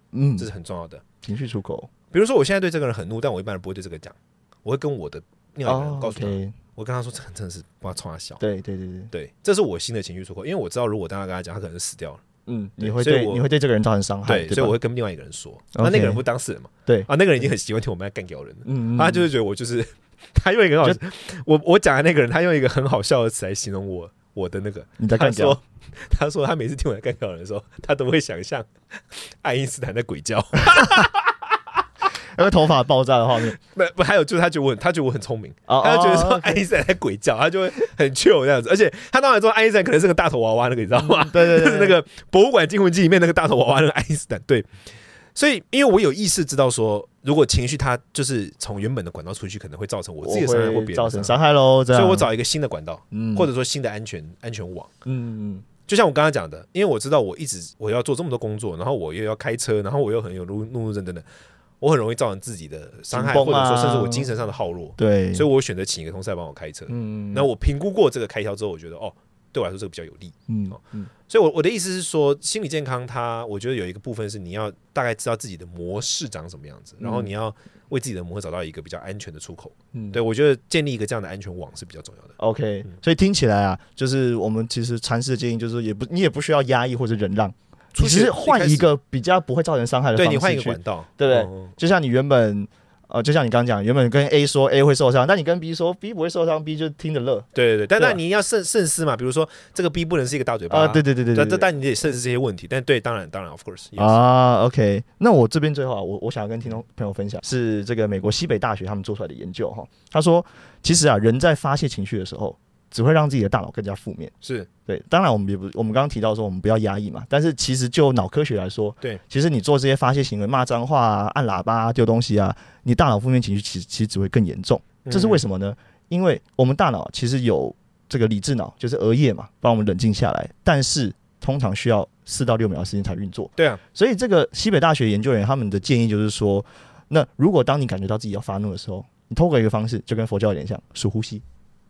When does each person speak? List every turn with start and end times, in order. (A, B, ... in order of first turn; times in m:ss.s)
0:00.1-0:00.5 A
0:00.4-0:01.0 B
0:01.2-0:01.9 A
0:02.1-0:08.4 B
0:05.6-0:06.5 A
0:08.4-0:09.1 A
0:09.1-0:12.2 B
0:12.5-0:14.8 A
0:12.8-0:13.5 B
0:14.2-0:31.4 B
0:15.7-0:16.2 A
0:18.6-0:19.3 A
0:25.0-0:25.6 A
0:32.3-0:33.6 A
0:33.5-0:44.7 B
0:35.7-0:36.6 A
0:41.0-0:42.0 A
0:45.3-0:54.9 B
0:50.2-0:52.3 A
0:53.1-0:53.5 A
0:55.0-0:55.6 A
0:55.9-1:01.2 B
1:01.8-1:22.3 B
1:03.1-1:04.3 A
1:05.0-1:05.5 A
1:06.9-1:07.5 A
1:10.5-1:11.1 A
1:17.0-1:17.3 A
1:19.9-1:20.2 A
1:22.4-1:38.2 A
1:27.9-1:28.9 B
1:30.1-1:31.7 B
1:37.5-1:44.2 B
1:40.7-1:41.7 A
1:44.0-1:54.3 A
1:54.4-1:54.7 B
1:54.9-2:21.4 A
2:05.0-2:05.4 B